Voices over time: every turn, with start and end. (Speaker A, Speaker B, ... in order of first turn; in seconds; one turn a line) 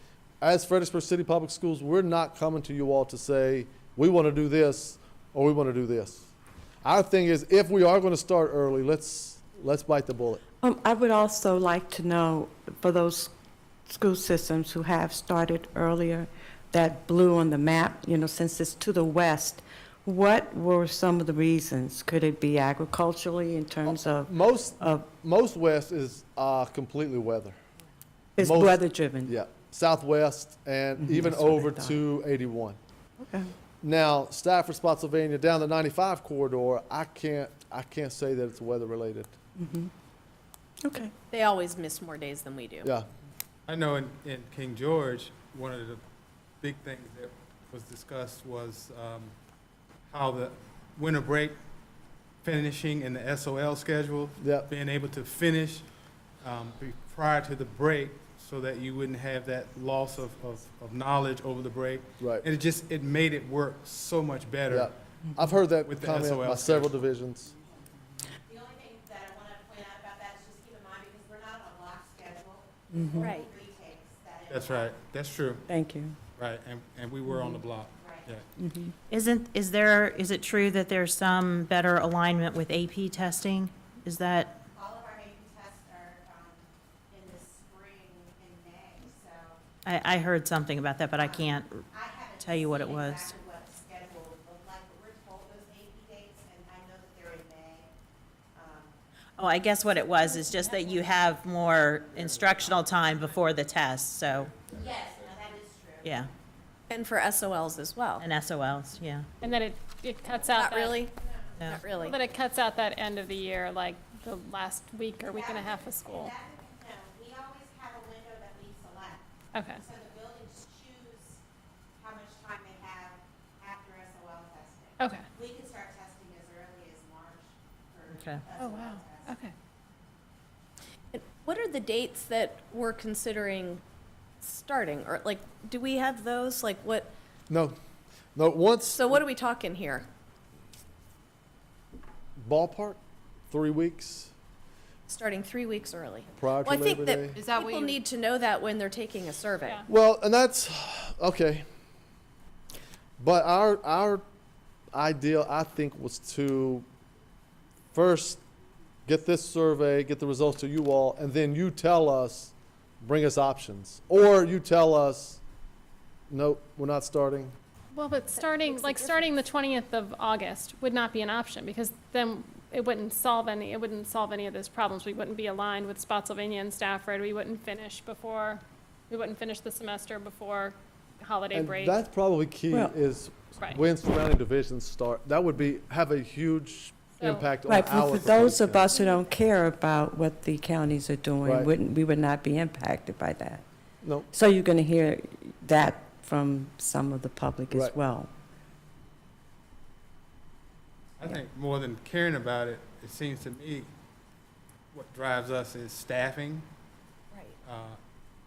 Speaker A: 0.4-6.3
Speaker A: 6.8-10.4
Speaker B: 10.6-13.3
Speaker B: 13.9-25.1
Speaker A: 23.9-27.6
Speaker B: 28.4-29.3
Speaker A: 28.4-32.8
Speaker B: 31.0-32.0
Speaker B: 33.2-33.5
Speaker A: 33.8-39.4
Speaker B: 39.6-39.9
Speaker B: 40.8-41.1
Speaker C: 41.3-42.9
Speaker D: 43.7-46.0
Speaker D: 46.6-49.3
Speaker D: 50.1-51.6
Speaker D: 52.4-55.9
Speaker A: 54.4-54.7
Speaker D: 56.4-65.0
Speaker A: 62.2-62.5
Speaker A: 64.7-67.5
Speaker D: 65.8-67.0
Speaker E: 68.5-75.0
Speaker B: 72.9-73.3
Speaker C: 73.2-73.5
Speaker D: 74.5-75.7
Speaker B: 75.7-76.2
Speaker D: 76.4-78.5
Speaker B: 77.3-77.6
Speaker E: 78.0-78.3
Speaker B: 78.6-79.0
Speaker F: 79.1-84.6
Speaker E: 84.7-89.6
Speaker F: 89.8-93.4
Speaker E: 91.1-97.9
Speaker E: 98.5-99.0
Speaker F: 99.4-104.6
Speaker E: 99.7-101.1
Speaker E: 104.8-106.3
Speaker F: 106.0-106.3
Speaker C: 106.9-108.2
Speaker F: 108.2-109.3
Speaker G: 109.4-111.1
Speaker C: 110.5-111.1
Speaker E: 111.2-111.9
Speaker F: 111.6-112.1
Speaker C: 111.8-112.2
Speaker G: 112.0-116.3
Speaker E: 115.2-121.4
Speaker G: 119.5-119.8
Speaker E: 122.0-129.4
Speaker G: 125.0-125.3
Speaker F: 128.1-128.4
Speaker G: 128.5-129.5
Speaker C: 131.1-133.8
Speaker C: 134.4-137.1
Speaker A: 137.5-137.8
Speaker A: 138.3-139.2
Speaker C: 138.9-140.1
Speaker A: 142.4-143.0
Speaker A: 143.5-144.3
Speaker C: 145.1-149.8
Speaker A: 146.3-147.4
Speaker A: 149.9-151.7
Speaker A: 153.2-154.2
Speaker A: 154.9-156.9
Speaker A: 157.9-158.4
Speaker A: 159.1-165.4
Speaker A: 166.3-167.6
Speaker G: 167.9-182.0
Speaker C: 168.3-169.4
Speaker A: 181.5-189.0
Speaker B: 182.7-183.0
Speaker G: 187.2-187.5
Speaker B: 187.7-193.6
Speaker A: 191.4-191.7
Speaker A: 194.0-194.3
Speaker B: 194.3-198.3
Speaker A: 197.7-198.0
Speaker D: 201.2-203.9
Speaker D: 204.9-206.7
Speaker C: 207.3-207.6
Speaker D: 207.6-208.0